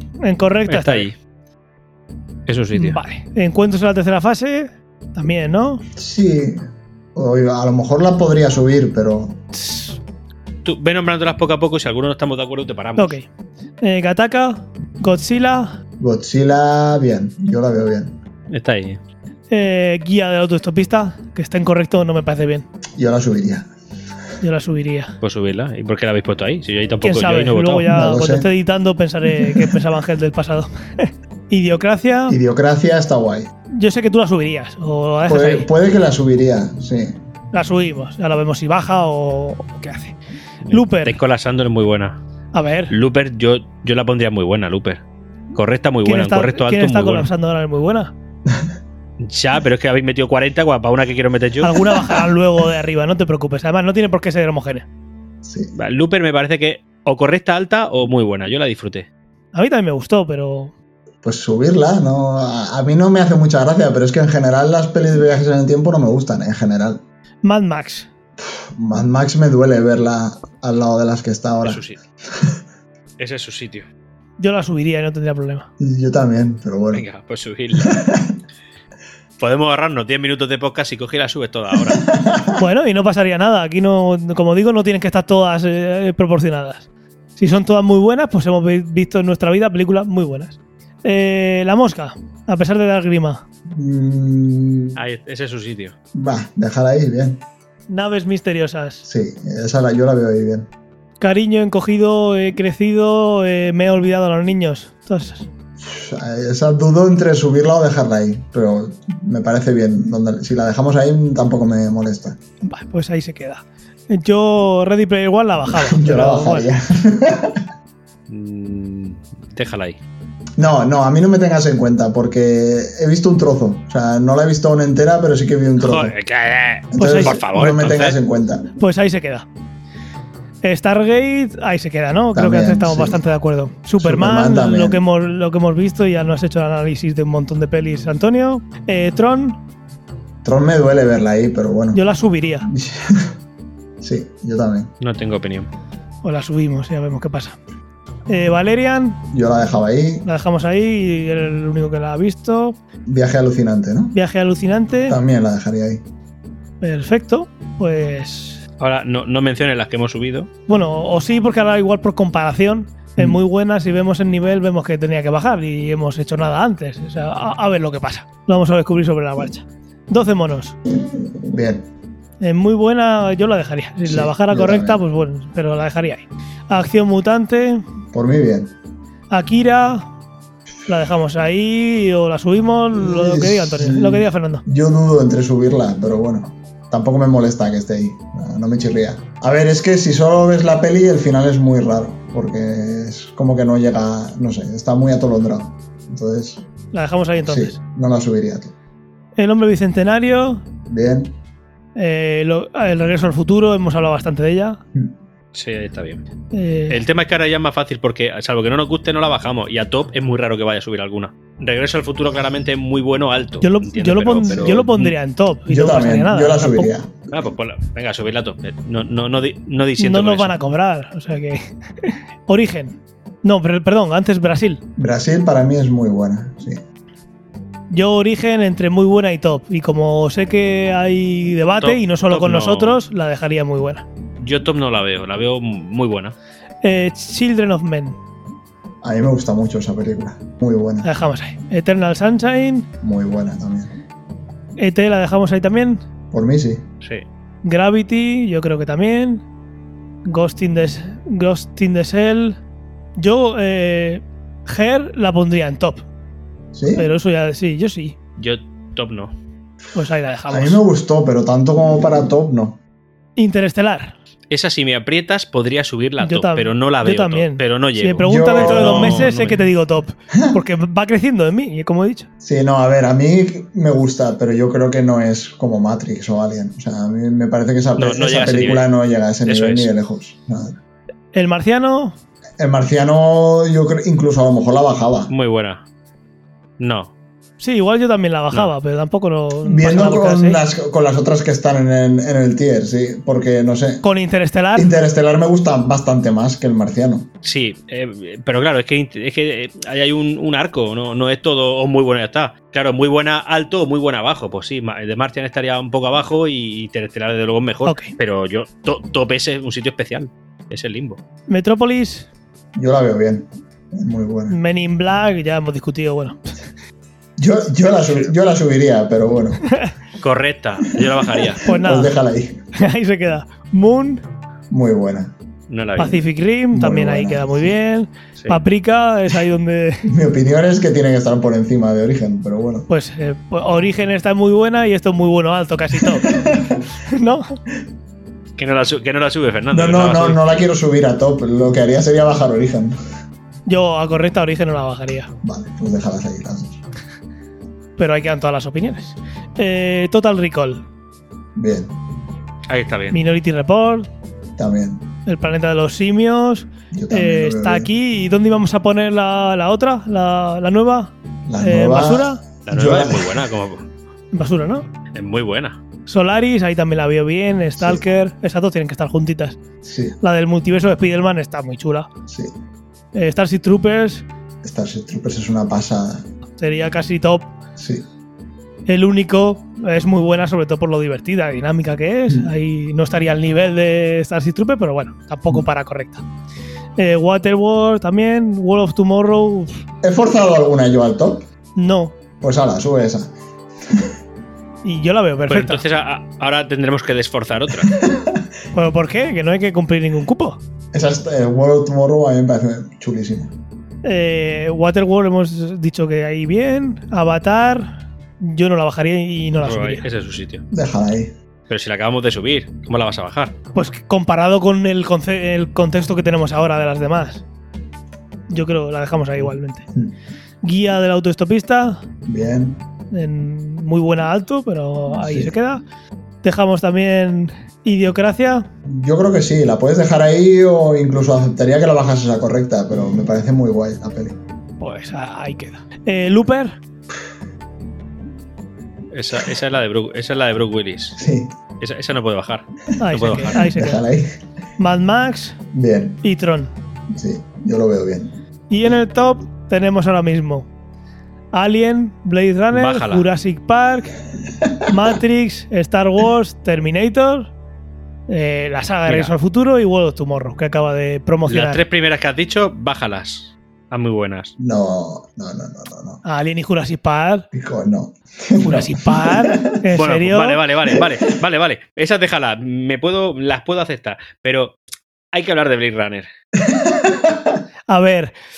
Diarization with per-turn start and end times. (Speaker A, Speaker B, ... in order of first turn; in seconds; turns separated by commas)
Speaker A: 0.2-1.1, Speaker B: 0.7-1.1, Speaker B: 2.5-3.0, Speaker A: 2.7-5.8, Speaker C: 6.0-6.6, Speaker C: 7.1-9.4, Speaker A: 9.5-10.0, Speaker B: 10.6-13.2, Speaker A: 13.0-13.3, Speaker A: 13.8-15.8, Speaker C: 16.0-18.1, Speaker B: 18.5-19.0, Speaker A: 19.5-22.6, Speaker C: 23.0-23.7, Speaker A: 24.4-25.1, Speaker B: 25.2-27.9, Speaker A: 27.0-32.4, Speaker C: 27.9-28.5, Speaker C: 32.3-33.5, Speaker A: 33.7-35.7, Speaker C: 35.2-37.2, Speaker A: 37.5-40.1, Speaker B: 40.6-42.2, Speaker A: 40.7-41.2, Speaker A: 42.5-42.9, Speaker B: 42.9-45.0, Speaker B: 45.5-47.3, Speaker A: 46.0-48.1, Speaker B: 49.2-52.1, Speaker A: 51.6-54.9, Speaker C: 55.4-55.7, Speaker B: 55.7-59.1, Speaker A: 59.5-60.7, Speaker C: 61.2-67.0, Speaker A: 67.4-68.1, Speaker C: 68.4-72.6, Speaker B: 71.6-72.0, Speaker B: 73.2-73.8, Speaker A: 74.4-75.7, Speaker C: 75.8-77.0, Speaker B: 76.9-78.0, Speaker C: 77.7-78.3, Speaker B: 79.4-82.0, Speaker C: 81.9-82.6, Speaker A: 82.6-86.8, Speaker A: 87.4-93.4, Speaker C: 93.7-95.0, Speaker B: 95.0-95.9, Speaker C: 96.1-97.4, Speaker A: 97.9-99.0, Speaker C: 99.0-100.7, Speaker A: 101.2-105.5, Speaker C: 105.8-112.4, Speaker A: 112.6-116.7, Speaker C: 115.7-117.6, Speaker B: 118.3-120.0, Speaker C: 120.6-126.1, Speaker B: 125.8-128.2, Speaker C: 126.9-128.7, Speaker A: 127.0-127.4, Speaker A: 128.8-129.4, Speaker A: 130.6-139.6, Speaker C: 132.3-133.2, Speaker C: 134.0-135.0, Speaker C: 140.4-142.0, Speaker A: 141.9-142.7, Speaker C: 142.6-143.3, Speaker C: 144.0-144.9, Speaker B: 145.0-145.7, Speaker A: 146.2-147.6, Speaker A: 148.3-149.2, Speaker C: 149.3-150.2, Speaker A: 150.2-152.8, Speaker C: 153.1-154.2, Speaker A: 154.1-155.2, Speaker C: 155.1-156.0, Speaker A: 156.8-158.6, Speaker B: 158.8-160.5, Speaker A: 160.7-170.8, Speaker C: 171.4-171.8, Speaker A: 172.4-177.8, Speaker C: 174.1-175.0, Speaker C: 178.1-178.7, Speaker A: 179.3-180.1, Speaker A: 180.8-184.6, Speaker C: 182.9-196.6, Speaker A: 196.9-197.8, Speaker C: 197.4-198.7, Speaker A: 199.4-200.6, Speaker C: 200.9-201.3, Speaker A: 201.9-204.8, Speaker B: 205.5-206.2, Speaker A: 206.5-207.0, Speaker B: 206.9-215.1, Speaker A: 213.6-216.9, Speaker C: 215.7-217.3, Speaker B: 217.3-220.5, Speaker A: 220.0-224.8, Speaker C: 225.0-226.8, Speaker A: 227.9-234.0, Speaker B: 231.8-233.0, Speaker B: 234.4-236.3, Speaker A: 236.8-238.2, Speaker C: 239.0-241.1, Speaker A: 241.0-242.9, Speaker C: 243.0-243.9, Speaker A: 244.8-246.0, Speaker C: 246.3-246.8, Speaker A: 247.6-249.4, Speaker A: 250.2-252.6, Speaker A: 253.2-256.0, Speaker C: 256.7-257.1, Speaker A: 256.9-258.1, Speaker B: 258.4-259.3, Speaker A: 259.9-260.8, Speaker C: 260.5-262.8, Speaker A: 263.4-264.1, Speaker B: 264.5-269.6, Speaker A: 266.2-272.3, Speaker C: 268.2-269.3, Speaker C: 270.3-270.6, Speaker C: 272.4-280.8, Speaker B: 278.0-278.9, Speaker B: 279.4-279.9, Speaker A: 281.3-282.1, Speaker C: 282.6-285.3, Speaker B: 285.3-285.8, Speaker B: 286.8-287.1, Speaker A: 287.6-290.6, Speaker C: 289.6-294.0, Speaker A: 294.0-294.9, Speaker C: 294.7-297.3, Speaker B: 297.4-311.2, Speaker A: 307.9-308.1, Speaker A: 311.5-312.3, Speaker C: 312.7-314.6, Speaker A: 314.5-316.5, Speaker C: 317.4-319.6, Speaker B: 320.2-321.6, Speaker C: 320.9-322.6, Speaker A: 321.6-322.1, Speaker A: 322.7-324.2, Speaker C: 324.7-325.3, Speaker B: 325.7-326.2, Speaker A: 326.0-330.1, Speaker C: 326.7-327.7, Speaker C: 330.1-332.9, Speaker A: 332.9-336.3, Speaker C: 336.2-336.8, Speaker A: 337.1-337.6, Speaker B: 338.6-340.4, Speaker C: 339.7-342.9, Speaker A: 343.6-345.3, Speaker C: 345.4-346.8, Speaker A: 348.0-350.8, Speaker C: 351.6-351.9, Speaker B: 352.7-353.2, Speaker A: 353.1-354.1, Speaker C: 354.6-355.1, Speaker A: 355.2-362.4, Speaker C: 356.9-357.9, Speaker C: 361.4-363.4, Speaker B: 362.6-363.8, Speaker A: 364.3-364.9, Speaker B: 365.1-365.8, Speaker A: 366.1-369.6, Speaker C: 369.8-370.1, Speaker A: 370.2-372.1, Speaker C: 372.3-372.5, Speaker A: 373.1-374.2, Speaker C: 374.6-376.2, Speaker A: 376.6-377.5, Speaker C: 377.8-378.0, Speaker A: 378.9-386.2, Speaker A: 387.0-389.8, Speaker C: 390.0-391.5, Speaker A: 391.8-392.1, Speaker C: 392.4-393.3, Speaker A: 394.8-395.8, Speaker B: 395.5-397.9, Speaker C: 398.0-398.4, Speaker A: 398.7-400.6, Speaker C: 400.9-403.5, Speaker A: 404.0-410.0, Speaker B: 409.6-410.6, Speaker C: 410.7-411.3, Speaker B: 411.7-413.5, Speaker A: 413.7-417.4, Speaker A: 418.5-419.8, Speaker A: 420.6-422.0, Speaker C: 422.3-422.8, Speaker A: 423.1-425.8, Speaker C: 425.1-425.5, Speaker A: 426.4-428.7, Speaker C: 428.9-434.4, Speaker A: 434.8-436.8, Speaker B: 439.1-441.2, Speaker C: 441.1-441.5, Speaker B: 441.8-443.6, Speaker A: 443.0-444.0, Speaker C: 443.5-444.4, Speaker A: 444.8-445.6, Speaker C: 445.7-446.2, Speaker A: 446.2-446.7, Speaker C: 447.1-448.4, Speaker A: 448.7-450.7, Speaker A: 451.5-454.1, Speaker B: 452.7-453.3, Speaker A: 454.9-457.5, Speaker A: 458.3-461.8, Speaker B: 459.1-459.3, Speaker B: 461.5-464.5, Speaker C: 464.6-466.2, Speaker A: 466.2-467.5, Speaker C: 467.5-469.7, Speaker A: 468.6-470.6, Speaker B: 469.9-474.8, Speaker C: 470.9-471.3, Speaker B: 475.3-476.3, Speaker C: 476.6-477.5, Speaker A: 477.9-478.4